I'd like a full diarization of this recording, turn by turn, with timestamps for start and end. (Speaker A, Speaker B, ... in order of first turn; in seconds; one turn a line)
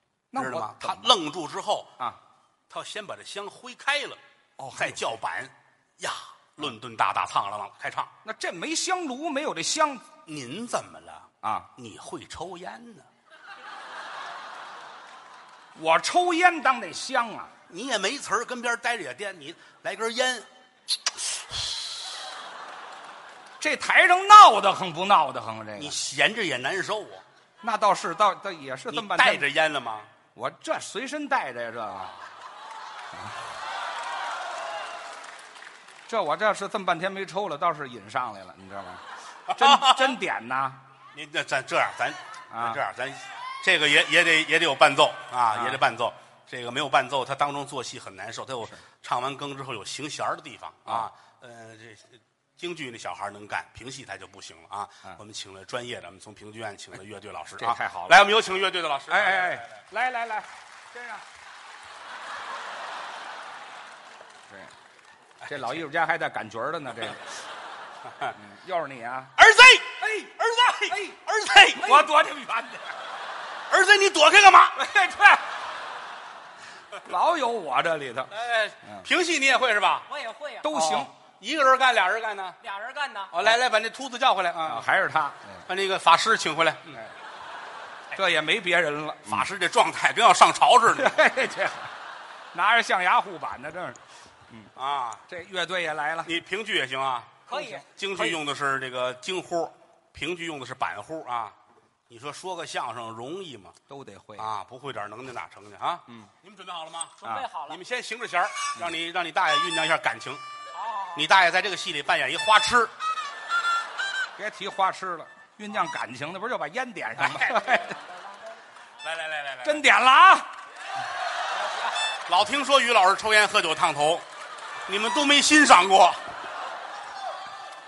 Speaker A: 0.3-1.1
Speaker B: 0.3-2.0
Speaker B: 2.7-4.2
Speaker A: 4.6-5.1
Speaker B: 4.7-8.1
Speaker A: 8.2-10.1
Speaker B: 10.2-13.1
Speaker A: 11.4-11.7
Speaker A: 15.7-17.5
Speaker B: 17.7-21.9
Speaker A: 23.6-26.0
Speaker B: 25.8-27.2
Speaker A: 27.6-29.5
Speaker B: 28.9-30.1
Speaker A: 30.3-32.1
Speaker A: 36.1-39.0
Speaker B: 39.5-40.2
Speaker A: 39.5-40.8
Speaker B: 41.1-59.7
Speaker A: 42.5-42.8
Speaker A: 45.5-45.8
Speaker A: 57.6-58.3
Speaker A: 59.1-61.2
Speaker A: 65.4-67.2
Speaker A: 68.3-69.3
Speaker B: 69.4-72.1
Speaker A: 70.0-72.9
Speaker B: 73.7-74.8
Speaker A: 74.8-75.5
Speaker A: 77.0-78.3
Speaker B: 78.3-80.0
Speaker C: 80.1-80.7
Speaker A: 80.6-81.1
Speaker B: 80.7-82.6
Speaker C: 82.6-83.3
Speaker B: 83.3-84.9
Speaker A: 84.6-85.6
Speaker B: 85.7-87.0
Speaker A: 88.1-89.5
Speaker B: 89.2-91.2
Speaker A: 91.0-91.9
Speaker A: 92.5-94.0
Speaker B: 94.8-95.2
Speaker A: 95.3-96.3
Speaker B: 96.2-101.5
Speaker C: 97.5-98.3
Speaker B: 102.1-103.8
Speaker A: 103.9-104.5
Speaker B: 104.4-110.4
Speaker C: 107.2-107.8
Speaker C: 110.7-111.2
Speaker B: 111.1-112.9
Speaker A: 114.4-118.0
Speaker B: 119.0-119.8
Speaker A: 119.6-120.5
Speaker C: 121.5-121.9
Speaker B: 122.3-124.2
Speaker B: 124.9-126.2